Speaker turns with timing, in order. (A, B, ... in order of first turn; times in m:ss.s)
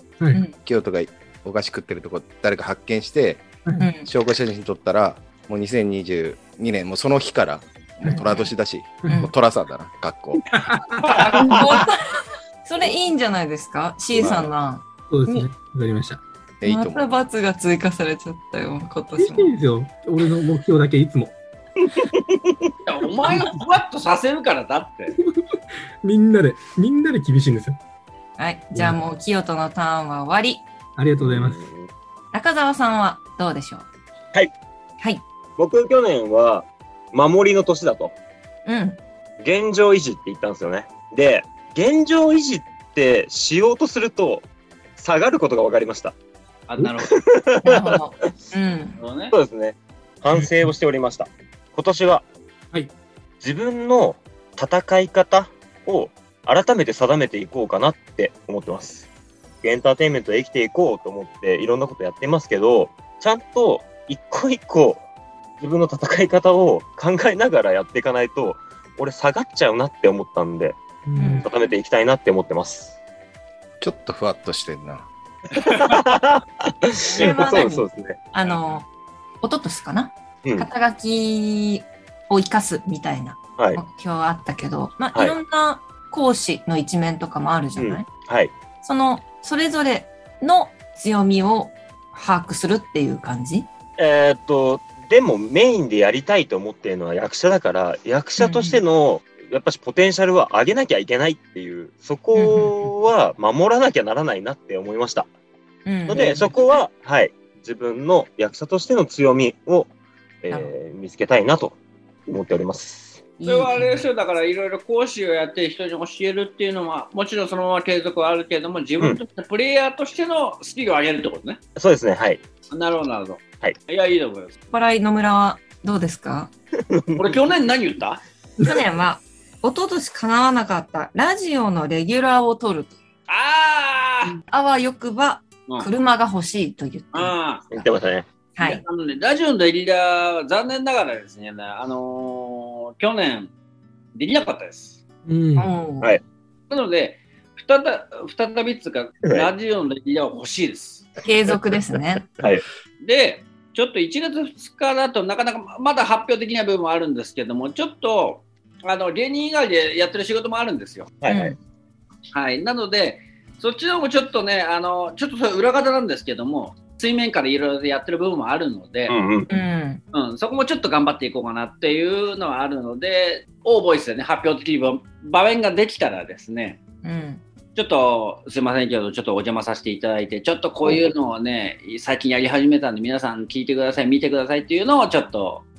0:00.6-0:03.5 A
0:03.8-0:04.1 B
0:04.0-0:10.5 A
0:08.1-0:08.5 B
0:09.0-0:09.3 C
0:10.5-0:11.7 C
0:11.1-0:11.6 D
0:11.2-0:15.5 B
0:14.2-0:14.5 A
0:15.1-0:16.2 C
0:16.6-0:17.1 A
0:16.6-0:19.6 B
0:19.2-0:21.4 C
0:21.9-0:22.7 E
0:22.9-0:25.2 D
0:23.3-0:23.6 C
0:25.2-0:27.8 C
0:28.4-0:30.6 B
0:31.0-0:31.6 C
0:31.2-0:31.9 E
0:32.3-0:33.9 B
0:35.6-0:38.2 E
0:38.7-0:39.0 B
0:39.4-0:44.5 E
0:45.0-0:46.2 E
0:46.7-0:47.2 D
0:47.0-0:48.0 E
0:47.6-0:49.0 B
0:49.0-0:49.3 D
0:49.3-0:52.2 E
0:53.4-0:59.1 E
0:59.6-1:05.0 E
1:05.6-1:10.8 E
1:11.0-1:11.5 C
1:11.2-1:11.5 B
1:11.4-1:13.0 E
1:13.8-1:15.1 A
1:15.6-1:18.6 E
1:17.1-1:18.9 B
1:19.4-1:28.1 B
1:27.8-1:28.5 E
1:28.8-1:33.7 B
1:34.0-1:45.3 E
1:38.4-1:38.8 B
1:42.4-1:42.9 B
1:45.9-1:46.5 B
1:46.1-1:49.9 E
1:50.4-1:51.8 E
1:52.3-1:53.2 E
1:53.4-1:54.1 B
1:53.5-2:01.6 D
2:01.8-2:02.4 E
2:02.7-2:04.6 D
2:04.7-2:06.5 B
2:06.9-2:07.4 E
2:07.2-2:08.2 D
2:08.6-2:13.0 B
2:13.3-2:14.4 D
2:14.5-2:17.8 B
2:17.1-2:17.7 D
2:17.7-2:18.3 E
2:18.6-2:18.8 B
2:18.6-2:23.5 D
2:24.2-2:25.0 D
2:25.3-2:25.7 C
2:25.6-2:26.1 B
2:26.7-2:31.1 D
2:31.2-2:32.3 B
2:32.4-2:32.6 E
2:33.0-2:41.2 D
2:41.2-2:41.5 E
2:41.3-2:41.6 B
2:42.3-2:49.2 D
2:49.1-2:49.5 E
2:49.5-2:50.0 B
2:50.1-2:56.8 D
2:57.0-2:57.4 B
2:57.8-3:05.7 D